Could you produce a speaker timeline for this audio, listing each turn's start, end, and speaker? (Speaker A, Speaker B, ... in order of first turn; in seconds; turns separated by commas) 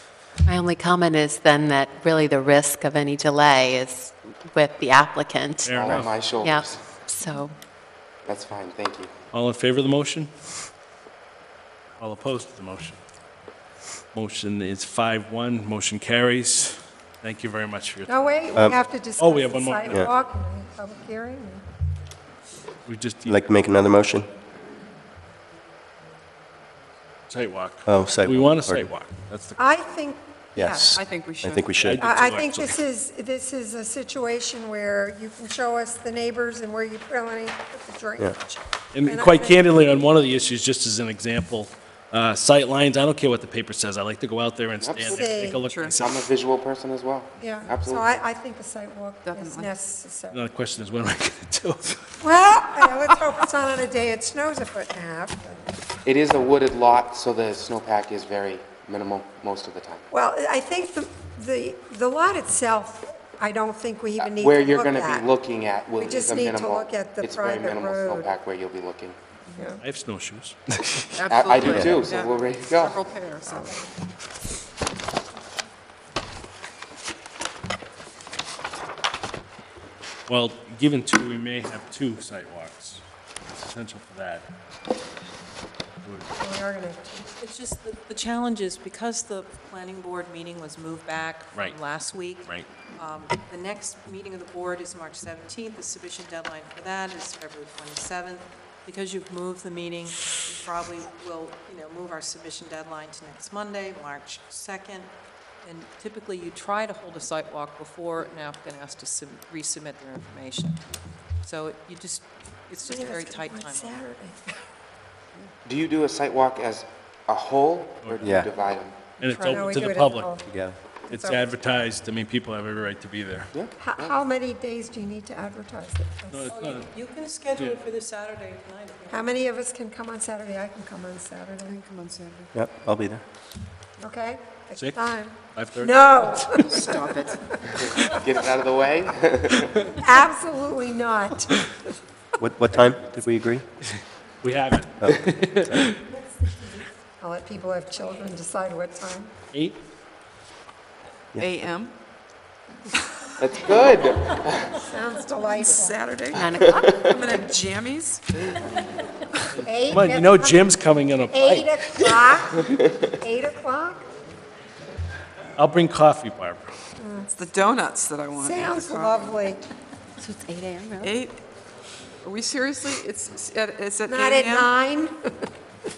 Speaker A: 0.5-7.5, Speaker B: 5.6-6.2, Speaker C: 5.7-6.8, Speaker C: 8.3-9.1, Speaker B: 9.3-10.3, Speaker B: 12.0-13.0, Speaker B: 14.1-20.1, Speaker D: 18.1-21.6, Speaker B: 22.9-23.4, Speaker E: 23.3-24.3, Speaker B: 27.3-29.7, Speaker E: 27.9-28.9, Speaker D: 29.6-30.9, Speaker E: 30.6-32.1, Speaker F: 30.8-31.7, Speaker B: 31.8-32.8, Speaker D: 32.0-39.6, Speaker B: 38.9-46.2, Speaker C: 44.8-45.3, Speaker D: 45.0-45.6, Speaker F: 45.6-46.0, Speaker C: 46.0-48.1, Speaker D: 47.4-50.5, Speaker F: 49.2-49.8, Speaker B: 50.3-52.0, Speaker D: 52.2-55.6, Speaker F: 52.9-53.2, Speaker C: 56.0-60.1, Speaker D: 60.1-65.3, Speaker C: 64.2-69.2, Speaker D: 66.0-68.3, Speaker F: 69.5-69.8, Speaker D: 69.6-69.8, Speaker B: 69.8-71.2, Speaker F: 71.1-73.8, Speaker C: 71.3-73.0, Speaker E: 71.7-72.0, Speaker B: 80.3-84.5, Speaker B: 86.0-86.3, Speaker D: 86.4-87.3, Speaker G: 87.3-105.1, Speaker G: 105.6-110.8, Speaker G: 111.4-114.0, Speaker D: 112.9-114.6, Speaker C: 115.7-119.0, Speaker B: 118.0-118.5, Speaker E: 118.2-118.5, Speaker B: 119.2-120.3, Speaker D: 119.2-120.5, Speaker E: 120.5-120.8, Speaker B: 121.1-123.5, Speaker D: 121.1-121.5, Speaker C: 123.5-124.1, Speaker D: 123.8-126.5, Speaker B: 126.3-126.9, Speaker G: 126.5-129.3, Speaker B: 127.5-127.8, Speaker D: 129.1-131.8, Speaker F: 131.6-132.5, Speaker E: 132.5-133.2, Speaker D: 134.0-137.6, Speaker B: 134.8-136.6, Speaker F: 136.7-137.4, Speaker C: 137.7-139.9, Speaker D: 139.8-141.7, Speaker E: 142.4-143.6, Speaker B: 144.4-146.0, Speaker D: 146.1-149.3, Speaker B: 149.5-149.8, Speaker F: 151.4-151.9, Speaker C: 153.4-154.8, Speaker D: 154.8-156.0, Speaker F: 155.6-158.5, Speaker A: 156.3-157.0, Speaker D: 159.6-160.7, Speaker B: 159.9-161.7, Speaker D: 161.3-164.1, Speaker B: 165.6-166.7, Speaker D: 167.0-167.4, Speaker F: 167.3-169.3, Speaker D: 168.4-169.6, Speaker A: 170.2-171.2, Speaker F: 171.0-171.4, Speaker F: 172.2-174.7, Speaker D: 174.1-175.2